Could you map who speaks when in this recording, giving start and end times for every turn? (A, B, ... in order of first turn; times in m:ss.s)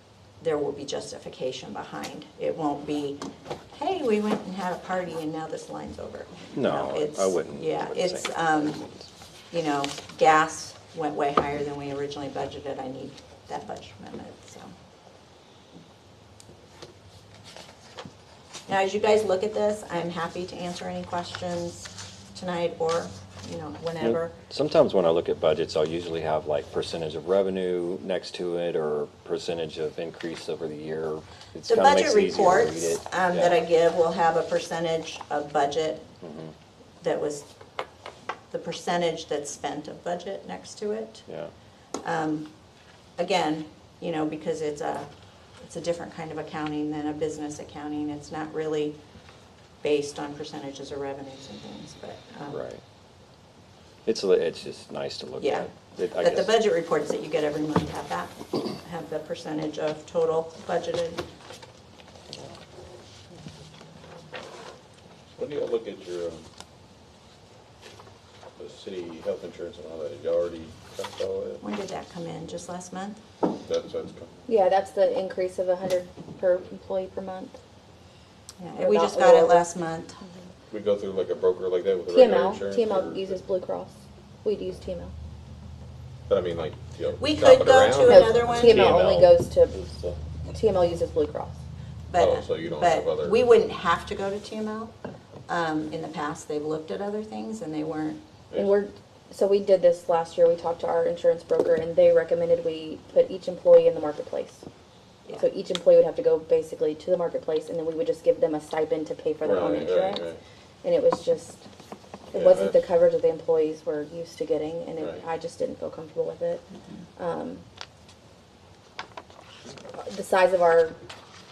0:00.4-0:03.2 A
0:03.7-0:08.9 A
0:06.5-0:09.0 B
0:09.5-0:14.7 A
0:18.7-0:24.3 A
0:24.0-0:33.6 B
0:31.7-0:36.0 A
0:36.2-0:36.5 B
0:37.0-0:37.5 A
0:38.5-0:41.2 A
0:42.0-0:42.5 A
0:43.2-0:45.1 A
0:45.6-0:49.0 A
0:49.8-0:52.6 A
0:52.5-0:52.8 B
0:54.0-0:56.6 B
0:55.4-1:01.3 A
1:05.4-1:06.4 C
1:08.6-1:11.6 C
1:11.6-1:13.2 A
1:13.6-1:14.4 C
1:14.5-1:17.6 D
1:18.6-1:20.2 A
1:18.8-1:19.7 D
1:20.7-1:23.4 C
1:22.1-1:25.1 D
1:26.3-1:30.2 C
1:27.2-1:29.0 A
1:28.1-1:29.8 D
1:30.5-1:31.6 D
1:32.1-1:34.9 A
1:32.2-1:33.5 C
1:35.5-1:38.2 A
1:38.5-1:38.8 C
1:38.5-1:44.6 D
1:45.3-1:50.2 D
1:49.4-1:50.4 C
1:50.8-1:51.6 D
1:52.3-1:56.6 D
1:52.3-1:52.8 C
1:55.0-1:55.2 C
1:57.2-1:57.6 D
2:00.0-2:01.0 D